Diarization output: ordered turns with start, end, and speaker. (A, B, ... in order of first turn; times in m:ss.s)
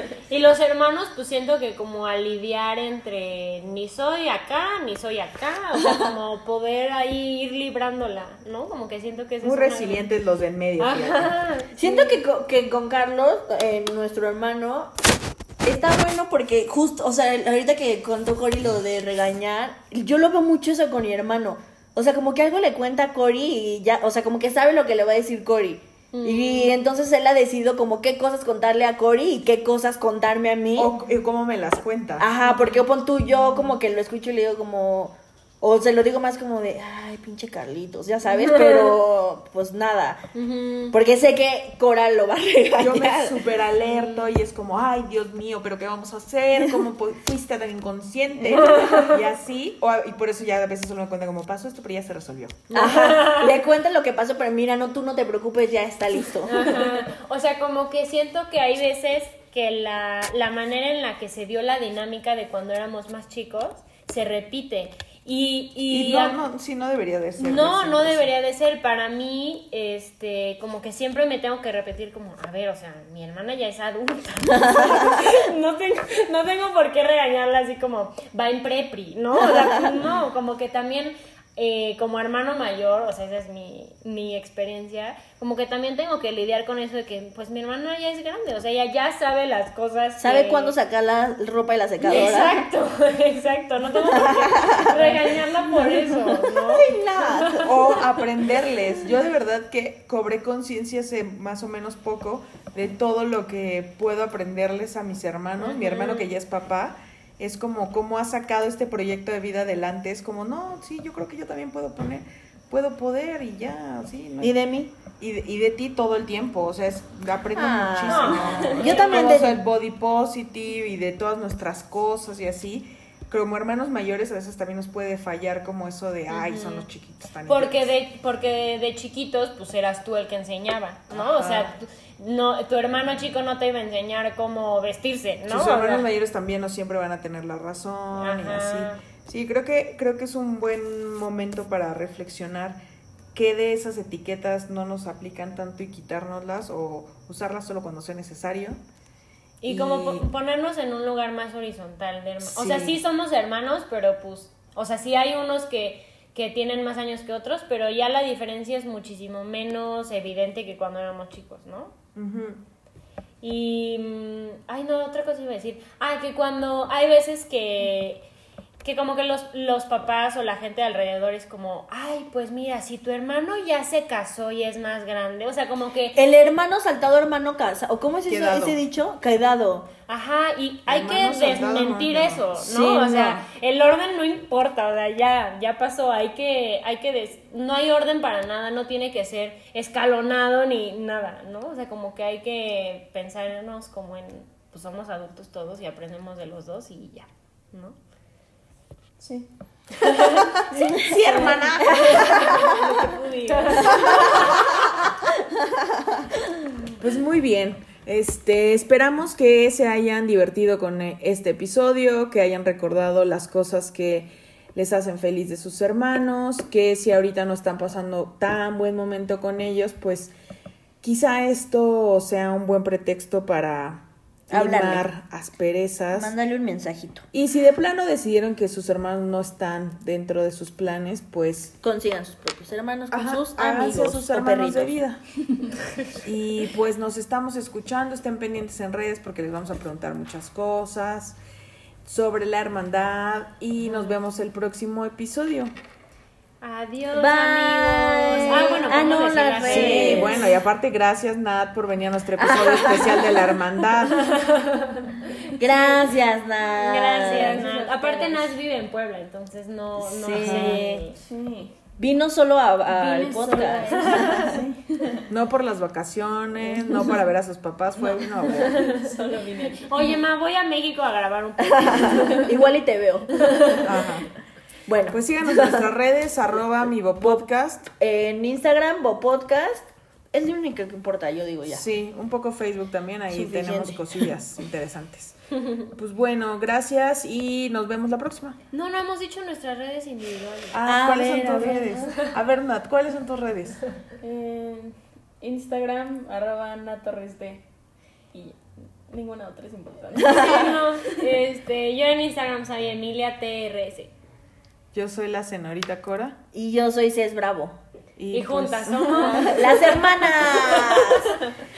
0:00.3-0:10.1 A
0:09.4-0:11.3 B
0:10.8-0:12.2 A
0:11.8-0:15.0 C
0:15.6-0:30.9 C
0:26.1-0:26.7 A
0:30.8-0:32.3 B
0:32.2-0:40.3 C
0:32.5-0:32.8 A
0:38.5-0:38.8 A
0:40.3-0:41.0 A
0:40.9-0:43.4 C
0:42.8-0:52.9 B
0:48.4-0:48.8 C
0:48.6-0:49.1 A
0:52.7-0:53.5 A
0:52.7-0:56.9 C
0:56.5-1:06.4 A
1:05.9-1:08.3 B
1:07.4-1:30.8 A
1:14.7-1:15.0 C
1:30.2-1:32.7 C
1:32.0-1:37.7 A
1:34.0-1:35.2 C
1:35.9-1:37.8 C
1:37.6-2:07.9 B
1:45.6-1:46.3 A
1:54.4-1:54.9 C
1:57.6-1:59.6 C
1:58.1-1:59.3 A
2:06.3-2:06.8 A
2:07.5-2:16.1 A
2:11.1-2:11.8 B
2:15.5-2:22.8 B
2:18.2-2:19.0 A
2:23.3-2:28.8 B
2:29.6-2:41.9 A
2:29.7-2:30.3 B
2:32.4-2:33.0 B
2:42.2-2:42.6 B
2:43.4-2:48.2 A
2:48.8-2:56.2 A
2:56.2-2:59.9 C
2:58.3-2:58.8 B
3:00.1-3:18.0 A
3:00.9-3:02.5 B
3:02.6-3:03.4 C
3:19.2-3:19.5 D
3:20.0-3:22.7 A
3:20.9-3:22.6 B
3:21.9-3:22.7 C
3:22.3-3:24.4 D
3:23.4-3:24.6 A
3:23.9-3:24.4 C
3:27.0-3:40.3 B
3:41.0-3:46.3 B
3:44.5-3:45.1 C
3:46.1-3:47.3 C
3:47.3-3:51.8 B
3:51.8-3:55.0 C
3:53.1-3:55.2 B
3:56.2-4:01.4 B
4:02.0-4:05.7 B
4:06.6-4:10.4 A
4:07.1-4:10.5 C
4:08.5-4:08.8 D
4:09.6-4:14.3 B
4:12.4-4:13.6 C
4:14.1-4:15.5 A
4:15.6-4:17.7 C
4:16.8-4:21.2 A
4:17.2-4:18.6 D
4:20.0-4:21.0 C
4:20.4-4:20.8 B
4:21.2-4:21.7 D
4:22.0-4:24.7 C
4:22.9-4:25.3 D
4:24.1-4:24.5 A
4:25.3-4:28.8 B
4:28.3-4:30.2 D
4:28.6-4:29.1 A
4:29.6-4:32.5 A
4:31.6-4:33.8 C
4:33.8-4:34.3 B
4:34.9-4:35.9 C
4:35.1-4:37.9 B
4:38.0-4:41.8 C
4:41.7-4:45.4 B
4:43.3-4:44.3 C
4:45.9-4:48.6 B
4:48.7-4:50.9 A
4:50.7-4:53.8 B
4:50.8-4:52.0 C
4:51.8-4:52.3 A
4:54.2-4:57.6 D
4:58.3-5:01.1 D
5:00.3-5:04.1 A
5:04.9-5:06.4 B
5:06.5-5:07.8 C
5:08.2-5:09.5 B
5:08.3-5:11.3 A
5:09.2-5:11.4 C